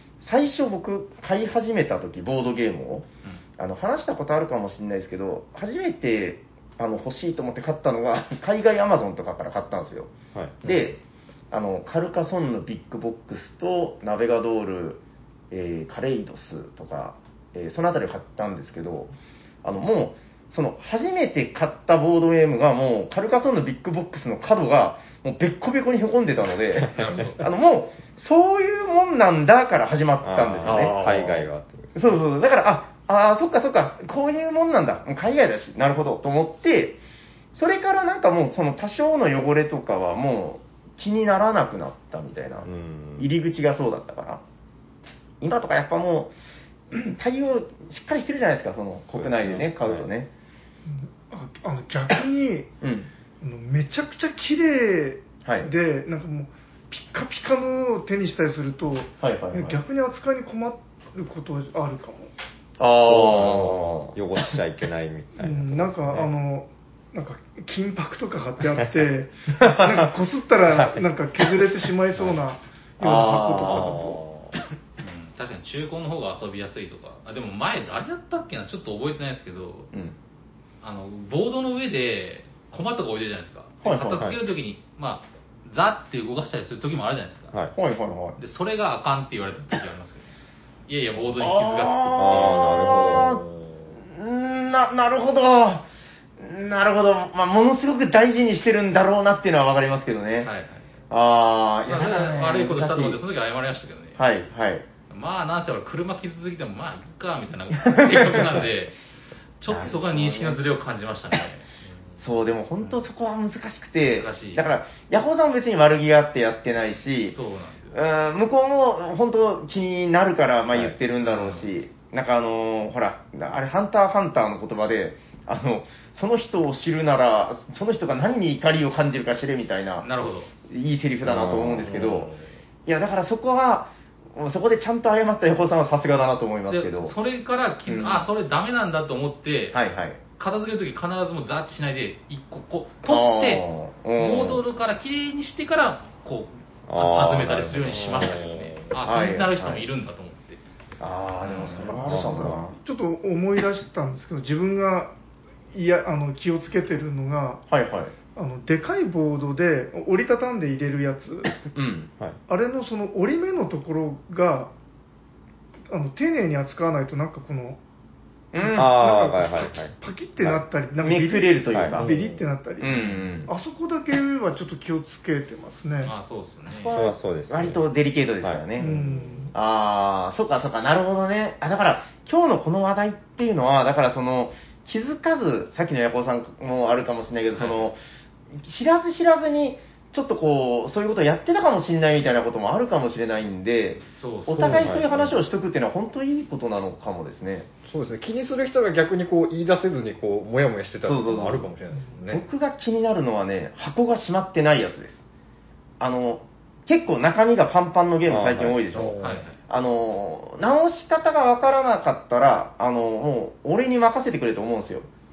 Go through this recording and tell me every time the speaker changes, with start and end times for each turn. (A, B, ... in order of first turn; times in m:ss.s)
0:00.2-0:03.1 A
0:03.6-0:10.1 A
0:10.6-0:11.0 A
0:11.5-0:19.1 A
0:19.6-0:31.0 A
0:26.9-0:27.4 B
0:27.0-0:27.2 C
0:30.2-0:32.0 C
0:30.6-0:31.4 D
0:31.9-0:37.0 A
0:37.5-0:44.4 A
0:42.6-0:43.3 C
0:45.4-0:46.3 A
0:46.9-0:50.3 A
0:49.1-0:50.1 C
0:50.9-0:52.7 E
0:52.8-0:53.1 A
0:53.4-1:02.3 E
0:55.4-0:55.7 A
0:59.2-0:59.8 A
1:02.8-1:04.1 A
1:03.0-1:06.3 C
1:05.4-1:14.2 E
1:09.6-1:09.9 A
1:10.7-1:11.1 C
1:13.0-1:14.0 A
1:13.7-1:14.2 C
1:15.0-1:19.9 B
1:20.8-1:27.6 B
1:23.8-1:24.3 A
1:27.8-1:28.4 A
1:28.4-1:30.3 B
1:30.9-1:32.6 B
1:31.4-1:33.4 A
1:32.2-1:33.4 C
1:34.0-1:35.9 A
1:36.4-1:40.5 A
1:40.4-1:40.9 B
1:41.1-1:43.2 A
1:41.9-1:44.3 B
1:44.2-1:44.8 A
1:45.1-1:49.0 B
1:47.8-1:48.5 A
1:49.6-1:51.7 B
1:49.7-1:50.6 A
1:52.2-1:57.4 A
1:54.2-1:54.7 B
1:57.3-1:58.0 B
1:57.9-2:10.1 A
2:01.2-2:01.7 B
2:10.0-2:10.5 B
2:10.7-2:12.3 A
2:11.2-2:11.9 C
2:11.8-2:12.5 D
2:12.9-2:17.1 A
2:16.7-2:19.8 B
2:17.9-2:18.3 A
2:19.7-2:20.2 A
2:20.4-2:30.6 B
2:23.0-2:24.6 A
2:26.9-2:28.2 C
2:27.9-2:29.0 D
2:29.0-2:29.8 A
2:31.0-2:32.8 A
2:31.4-2:31.9 B
2:31.8-2:35.1 E
2:32.1-2:32.6 C
2:35.7-2:37.6 E
2:37.7-2:38.1 A
2:38.4-2:41.6 E
2:41.7-2:42.1 A
2:42.5-2:44.7 E
2:45.9-2:47.8 E
2:48.5-2:49.0 A
2:48.6-2:56.1 E
2:48.8-2:50.6 C
2:51.0-2:52.1 A
2:51.7-2:52.0 C
2:52.0-2:52.5 D
2:52.8-2:53.5 A
2:56.0-2:56.9 B
2:56.7-2:58.9 A
2:56.9-2:57.9 C
2:58.8-2:59.5 E
2:58.8-2:59.5 D
2:59.5-3:08.0 A
3:07.5-3:07.9 B
3:08.6-3:17.7 A
3:14.0-3:14.9 B
3:14.6-3:15.4 D
3:14.8-3:15.1 C
3:17.9-3:22.4 D
3:21.0-3:21.7 A
3:22.3-3:25.2 A
3:26.0-3:35.1 A
3:28.3-3:28.8 C
3:28.9-3:29.4 D
3:29.2-3:29.6 B